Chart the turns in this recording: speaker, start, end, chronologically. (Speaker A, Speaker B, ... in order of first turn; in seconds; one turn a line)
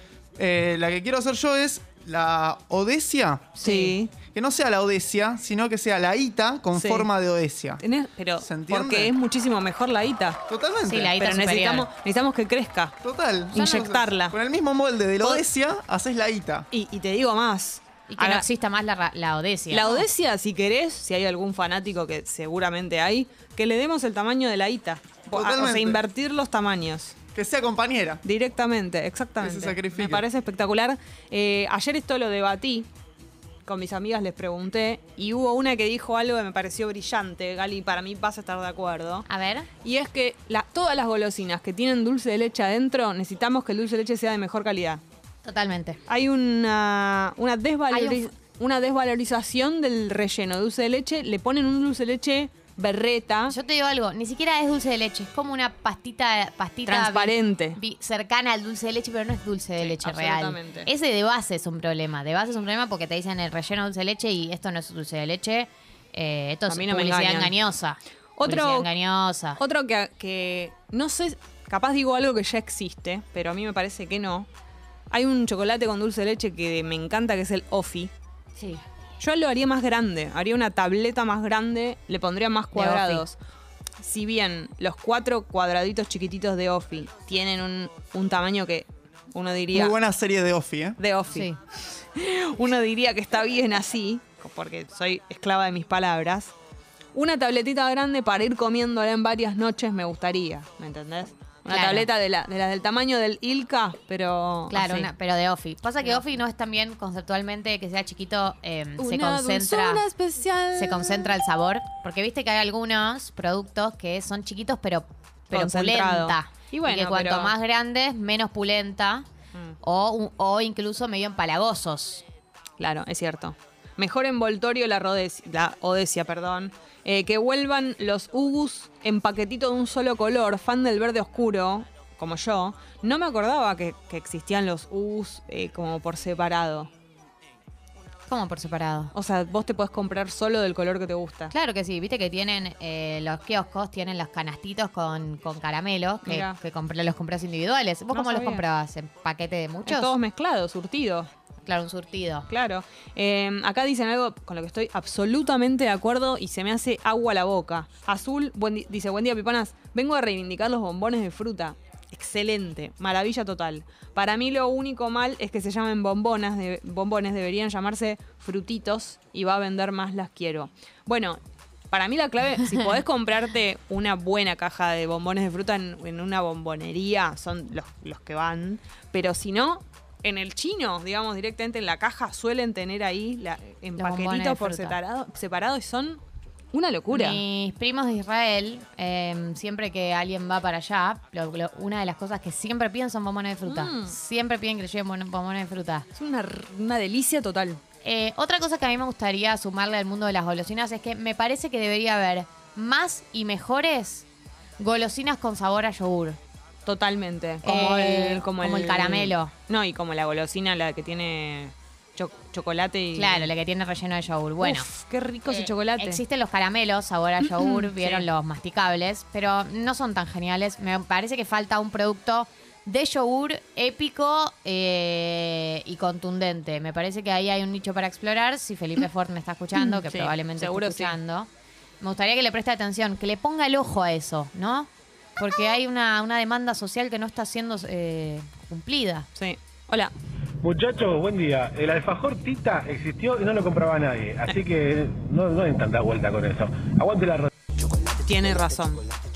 Speaker A: 0.4-3.7
Speaker B: 3.6-4.1
Speaker C: 3.6-4.0
Speaker A: 4.3-7.8
Speaker B: 6.8-7.1
Speaker B: 7.8-10.4
Speaker A: 8.4-9.1
Speaker A: 10.5-11.2
Speaker C: 10.9-11.9
Speaker B: 11.2-13.0
Speaker A: 13.0-16.7
Speaker B: 13.5-14.3
Speaker B: 16.7-18.5
Speaker C: 18.1-20.1
Speaker B: 19.7-27.2
Speaker A: 25.3-26.0
Speaker A: 27.4-28.2
Speaker B: 28.2-32.9
Speaker A: 29.4-30.2
Speaker B: 33.7-39.3
Speaker C: 39.3-39.7
Speaker B: 39.8-45.0
Speaker C: 45.5-46.0
Speaker B: 46.1-53.5
Speaker C: 47.9-48.2
Speaker C: 53.5-69.6
Speaker B: 56.9-57.8
Speaker B: 59.8-60.9
Speaker B: 66.7-67.5
Speaker B: 68.4-68.9
Speaker B: 69.6-74.5
Speaker B: 75.1-78.1
Speaker B: 79.2-83.4
Speaker C: 82.7-83.2
Speaker B: 84.0-90.0
Speaker A: 89.7-91.0
Speaker B: 91.0-96.5
Speaker B: 97.2-105.1
Speaker C: 101.7-102.1
Speaker C: 104.7-110.0
Speaker B: 109.0-111.4
Speaker C: 110.8-119.3
Speaker B: 115.5-117.5
Speaker C: 119.8-122.2
Speaker B: 122.8-136.9
Speaker C: 138.3-139.1
Speaker B: 139.1-141.5
Speaker C: 141.5-150.1
Speaker B: 146.2-146.6
Speaker B: 148.1-148.6
Speaker B: 149.8-151.3
Speaker C: 151.7-152.5
Speaker B: 152.5-171.4
Speaker B: 171.9-186.2
Speaker C: 184.0-185.0
Speaker B: 186.7-187.4
Speaker C: 187.1-196.1
Speaker B: 193.7-194.2
Speaker B: 196.2-197.8
Speaker C: 198.0-204.3
Speaker C: 204.8-206.4
Speaker B: 206.9-213.5
Speaker C: 207.6-209.5
Speaker C: 213.2-214.9
Speaker B: 214.6-216.2
Speaker C: 215.5-231.5
Speaker B: 217.4-218.3
Speaker B: 229.8-231.2
Speaker C: 232.0-239.3
Speaker B: 239.4-240.1
Speaker D: 240.6-247.5
Speaker B: 248.2-249.0